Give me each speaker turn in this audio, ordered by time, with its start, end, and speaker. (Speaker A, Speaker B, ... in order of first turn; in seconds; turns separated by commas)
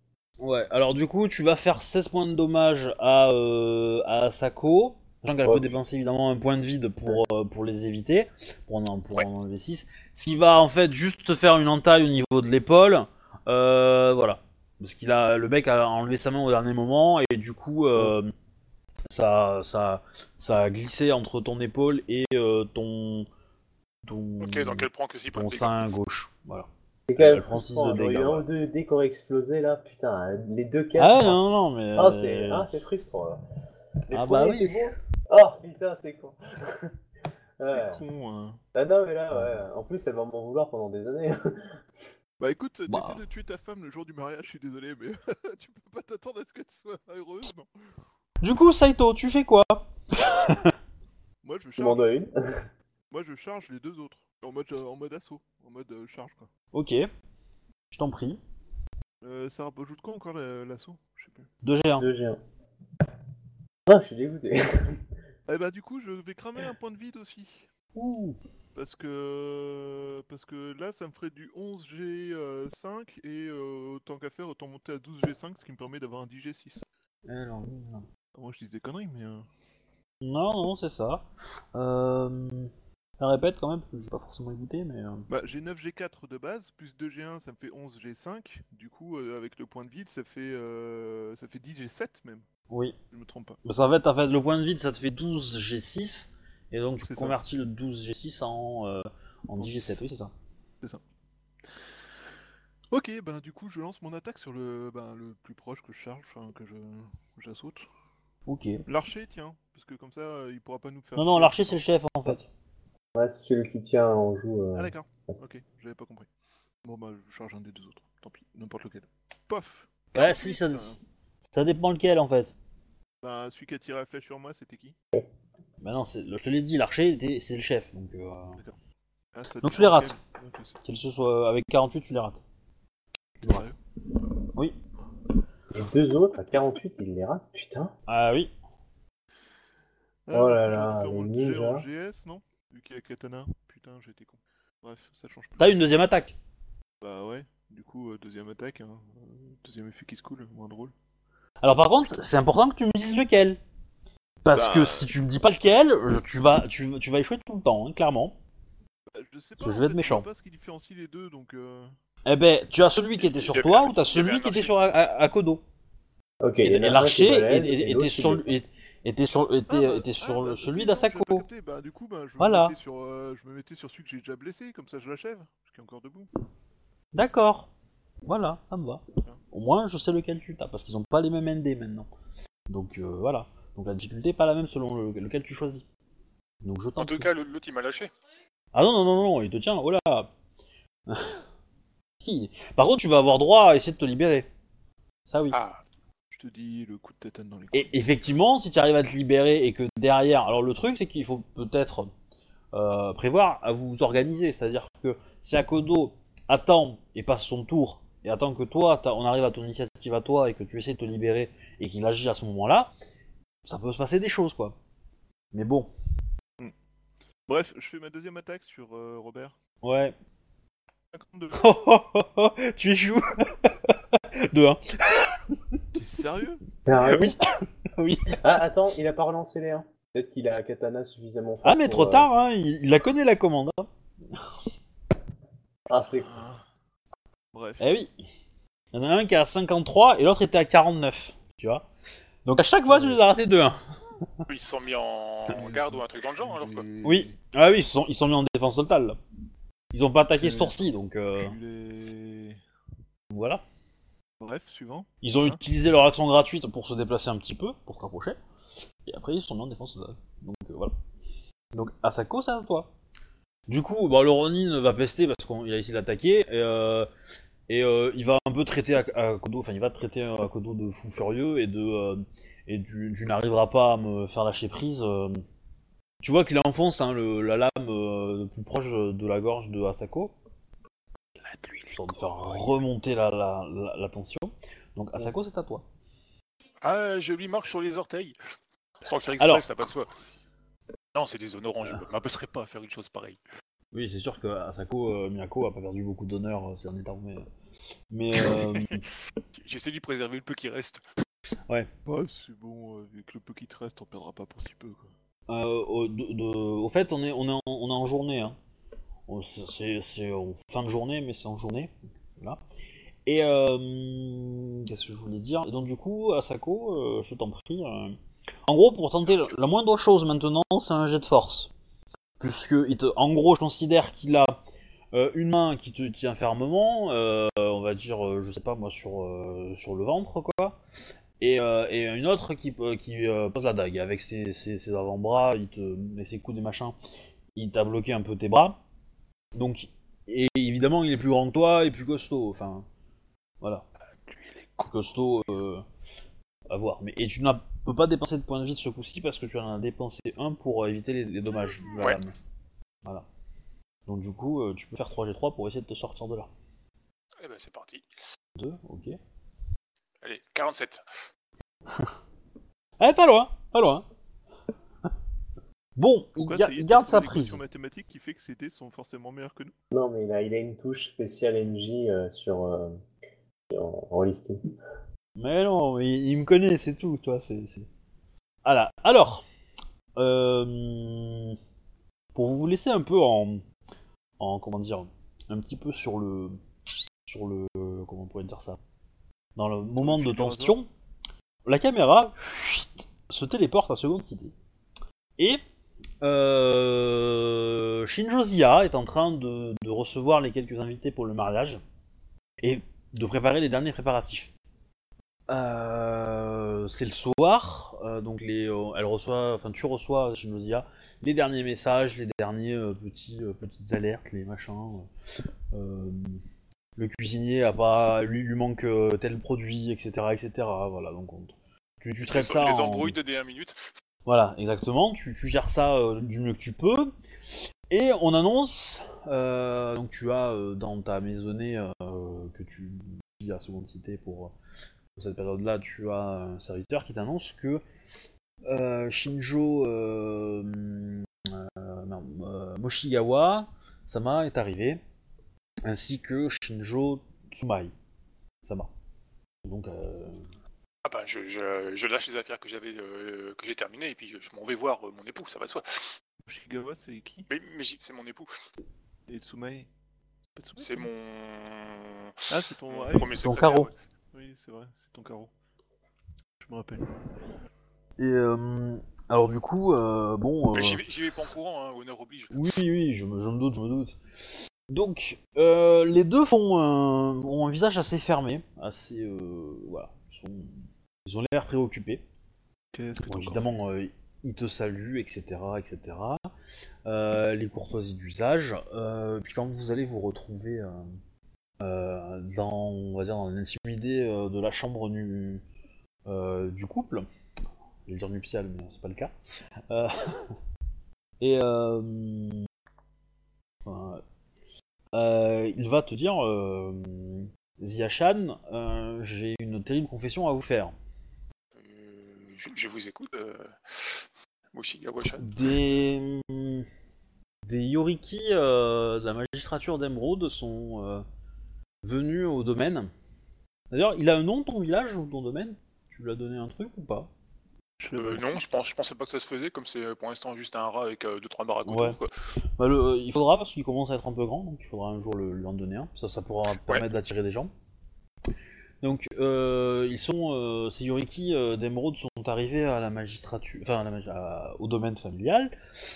Speaker A: 0.4-18.3, Speaker B: 5.4-5.8, Speaker A: 19.1-23.3, Speaker A: 24.0-28.4, Speaker C: 24.4-25.7, Speaker B: 27.1-33.4, Speaker A: 30.9-32.7, Speaker B: 34.1-36.9, Speaker A: 34.1-34.9, Speaker B: 37.6-38.0, Speaker D: 37.6-38.6, Speaker B: 38.7-41.8, Speaker A: 39.3-39.6, Speaker D: 42.4-47.7, Speaker A: 42.9-43.2, Speaker A: 48.4-50.7, Speaker D: 51.4-52.1, Speaker B: 51.8-52.3, Speaker D: 53.1-56.5, Speaker A: 56.7-57.1, Speaker A: 57.9-58.4, Speaker D: 59.2-61.5, Speaker A: 61.6-62.1, Speaker B: 62.0-62.4, Speaker B: 63.9-65.0, Speaker D: 65.5-67.7, Speaker A: 67.9-68.4, Speaker D: 68.7-76.8, Speaker A: 77.2-78.1, Speaker D: 78.3-79.5, Speaker A: 80.2-85.3, Speaker D: 85.3-92.5, Speaker A: 92.7-92.9, Speaker D: 93.1-93.6, Speaker A: 93.6-100.3, Speaker D: 97.0-97.4, Speaker D: 99.6-100.0, Speaker D: 102.9-107.8, Speaker A: 108.5-108.8, Speaker D: 108.9-111.8, Speaker A: 111.2-112.5, Speaker B: 113.1-114.9, Speaker D: 114.7-116.3, Speaker D: 116.8-121.0, Speaker A: 120.1-121.0, Speaker A: 121.5-122.5, Speaker D: 123.2-125.0, Speaker A: 125.8-128.6, Speaker D: 129.3-130.8, Speaker A: 129.6-130.1, Speaker A: 130.8-132.4, Speaker D: 133.4-133.8, Speaker B: 135.7-137.9, Speaker A: 138.1-138.5, Speaker D: 140.3-145.8, Speaker B: 140.3-141.8, Speaker A: 145.6-146.3, Speaker D: 147.0-150.9, Speaker A: 151.6-153.6, Speaker A: 154.4-158.3, Speaker D: 154.5-155.1, Speaker D: 159.1-161.9, Speaker A: 159.6-160.3, Speaker A: 162.2-165.6, Speaker C: 163.2-164.7, Speaker B: 166.4-168.5, Speaker A: 166.6-171.5, Speaker D: 169.7-176.3, Speaker A: 172.4-172.7, Speaker A: 177.1-177.7, Speaker A: 178.2-182.1, Speaker A: 182.7-185.8, Speaker A: 186.6-187.3, Speaker C: 187.0-188.1, Speaker A: 188.7-190.3, Speaker A: 191.1-191.4, Speaker A: 192.2-194.5, Speaker A: 195.3-195.6, Speaker C: 195.5-195.8, Speaker D: 196.3-197.9, Speaker A: 197.7-202.1, Speaker A: 202.7-212.9, Speaker A: 213.6-214.8, Speaker A: 215.5-215.9, Speaker D: 217.5-219.6, Speaker A: 219.8-220.1, Speaker D: 221.1-221.6, Speaker A: 221.5-225.8, Speaker D: 225.9-226.6, Speaker B: 226.8-227.3, Speaker A: 226.9-228.4, Speaker B: 228.3-232.3, Speaker A: 231.6-234.4, Speaker B: 235.9-236.3, Speaker D: 236.2-236.6, Speaker D: 237.5-237.8, Speaker A: 237.8-238.1, Speaker A: 238.9-241.8, Speaker A: 242.4-243.8, Speaker D: 242.9-243.2, Speaker C: 244.5-246.8, Speaker D: 245.5-247.4, Speaker A: 247.0-249.2, Speaker A: 249.9-251.6, Speaker D: 250.4-250.8, Speaker D: 251.3-252.6, Speaker A: 253.3-253.6, Speaker D: 254.4-255.6, Speaker A: 255.2-258.4, Speaker A: 259.0-260.9, Speaker A: 261.7-262.9, Speaker A: 263.7-267.1, Speaker A: 267.7-275.4, Speaker A: 276.2-280.3, Speaker C: 281.4-282.7, Speaker A: 281.9-285.8, Speaker C: 286.8-288.4, Speaker C: 289.0-290.1, Speaker A: 289.4-289.6, Speaker C: 291.1-293.4, Speaker A: 293.9-297.4, Speaker A: 298.1-299.1, Speaker C: 298.4-298.9, Speaker C: 299.5-301.0, Speaker D: 302.1-305.1, Speaker A: 305.5-308.6, Speaker A: 309.3-312.6, Speaker A: 313.2-321.7, Speaker C: 319.2-319.5, Speaker A: 322.4-324.6, Speaker A: 325.1-330.8, Speaker A: 331.4-336.9, Speaker A: 337.5-338.8, Speaker A: 339.6-342.9, Speaker A: 344.8-345.8, Speaker A: 346.7-352.3, Speaker C: 351.8-352.2, Speaker A: 354.1-356.5, Speaker C: 357.4-358.0, Speaker A: 358.6-359.2, Speaker C: 360.2-361.0, Speaker A: 363.0-364.0, Speaker A: 365.9-367.6, Speaker D: 366.4-369.7, Speaker B: 369.9-373.0, Speaker B: 373.7-374.6, Speaker A: 375.4-377.9, Speaker A: 378.6-379.4, Speaker A: 380.2-381.6, Speaker A: 382.3-383.6, Speaker A: 384.4-386.6, Speaker A: 387.2-388.8, Speaker A: 389.6-390.9, Speaker D: 390.0-390.8, Speaker A: 391.6-394.5, Speaker A: 396.2-401.8, Speaker A: 402.6-404.5, Speaker A: 405.5-415.1, Speaker A: 415.7-416.4, Speaker A: 417.0-423.1, Speaker C: 422.3-423.8, Speaker A: 424.2-427.1, Speaker A: 427.9-434.5, Speaker A: 435.1-437.8, Speaker A: 438.6-445.0, Speaker A: 445.8-447.9, Speaker A: 448.6-448.9, Speaker A: 449.6-450.5, Speaker C: 451.0-456.1, Speaker D: 456.4-457.5, Speaker C: 457.5-458.5, Speaker D: 459.3-459.9, Speaker D: 460.6-461.1, Speaker C: 460.8-463.9, Speaker D: 462.5-463.5, Speaker A: 463.1-463.9, Speaker D: 464.3-465.5, Speaker D: 466.6-467.1, Speaker A: 468.2-471.0, Speaker C: 470.7-472.8, Speaker A: 472.5-480.7, Speaker A: 481.2-482.2, Speaker D: 482.9-483.7, Speaker A: 483.2-486.4, Speaker A: 487.0-491.0, Speaker A: 491.8-495.6, Speaker A: 496.2-497.3, Speaker A: 498.1-499.3, Speaker A: 499.9-500.6, Speaker A: 501.4-502.6, Speaker A: 503.9-504.2, Speaker A: 505.1-510.9, Speaker C: 511.8-514.2, Speaker C: 514.7-515.5, Speaker A: 515.4-516.9, Speaker A: 517.6-521.2, Speaker A: 522.0-523.1, Speaker A: 523.9-527.3, Speaker D: 528.0-528.5, Speaker C: 528.1-532.3, Speaker A: 531.9-532.2, Speaker A: 532.8-537.7, Speaker A: 539.0-545.7